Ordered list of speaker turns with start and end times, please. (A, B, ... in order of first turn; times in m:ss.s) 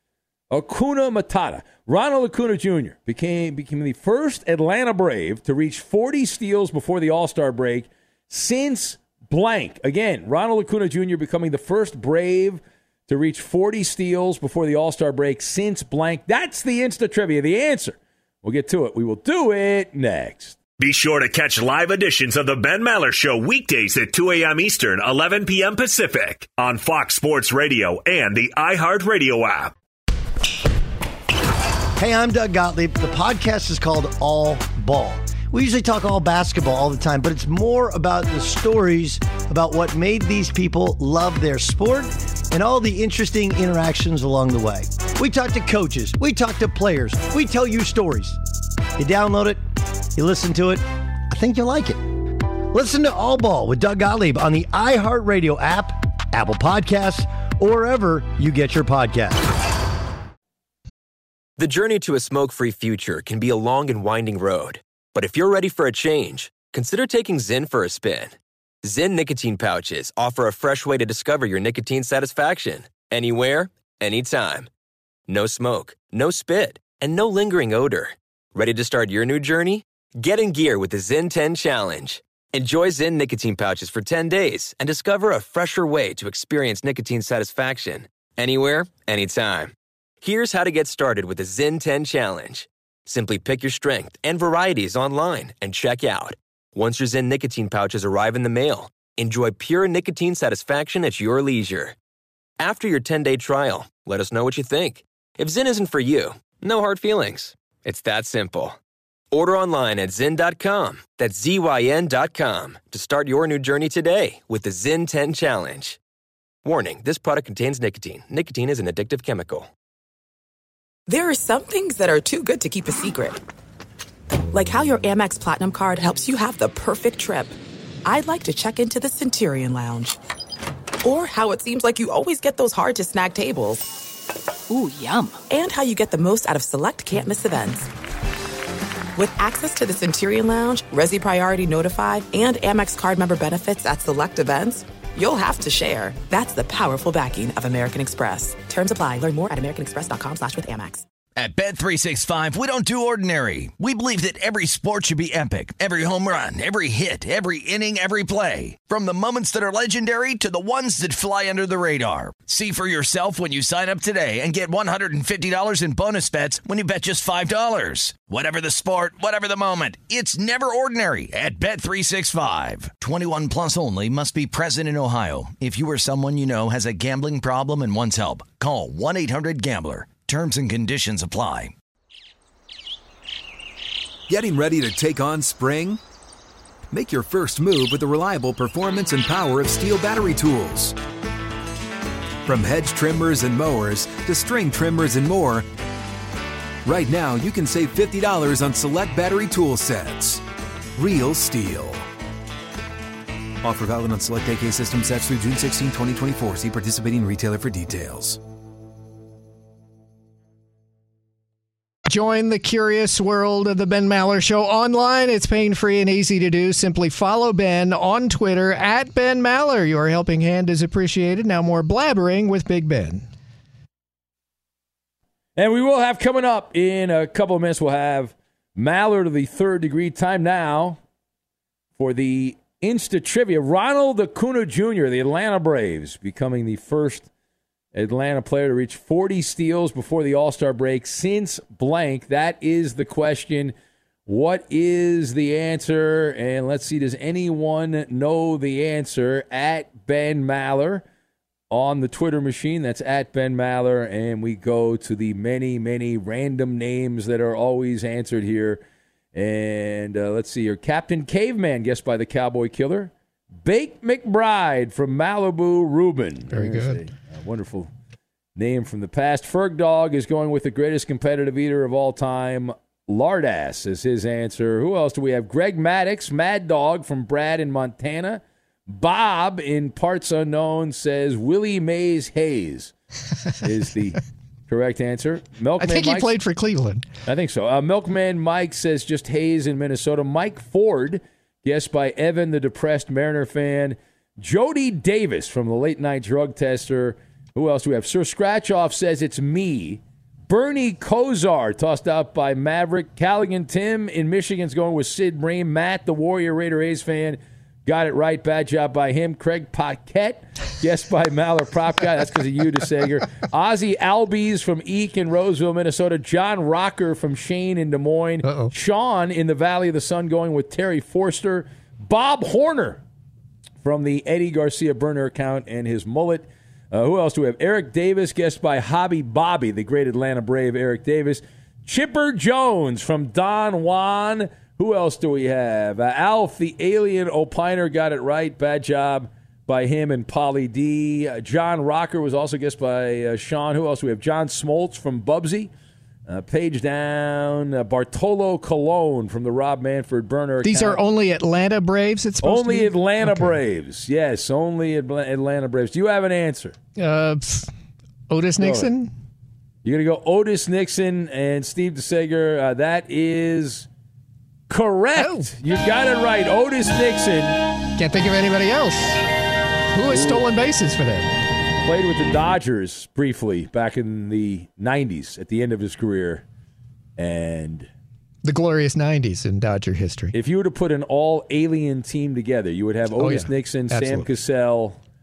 0:00.5-0:20.6 A
0:20.8-0:29.7 B
0:32.0-0:48.4 C
0:49.0-0:49.6 C
0:50.2-0:52.0 C
0:52.7-0:59.4 C
1:01.6-1:08.3 D
1:08.8-1:14.7 D
1:15.3-1:42.0 D
1:42.6-1:48.8 D
1:49.3-1:56.0 D
1:56.6-1:59.7 D
2:01.1-2:03.4 E
2:04.5-2:10.2 E
2:11.0-2:13.9 E
2:14.9-2:17.9 E
2:19.2-2:31.1 E
2:31.4-3:01.7 F
3:04.3-3:06.0 G
3:06.9-3:11.0 G
3:12.5-3:15.7 G
3:16.8-3:20.4 G
3:21.0-3:22.1 G
3:23.6-3:28.4 G
3:32.1-3:43.2 H
3:45.6-3:51.0 A
3:52.0-3:57.3 A
3:57.9-4:03.7 A
4:04.3-4:11.0 A
4:11.7-4:18.8 A
4:19.3-4:23.1 A
4:23.6-4:27.9 A
4:26.5-4:27.0 H
4:28.6-4:42.9 A
4:43.6-4:46.3 A
4:45.8-4:47.0 H
4:47.3-5:23.0 A
5:18.4-5:18.7 H
5:23.8-5:45.7 A
5:46.3-5:51.0 A
5:50.6-5:53.6 H
5:52.4-5:56.8 A
5:57.0-5:57.7 H
5:58.3-5:59.1 H
5:58.6-5:58.9 A
5:59.8-6:03.9 A
6:04.7-6:07.6 A
6:05.2-6:05.5 H
6:08.0-6:09.2 H
6:09.9-6:11.3 H
6:10.1-6:10.4 A
6:11.8-6:16.4 A
6:17.2-6:17.9 A
6:18.4-6:20.4 H
6:20.3-6:25.0 A
6:23.2-6:24.3 H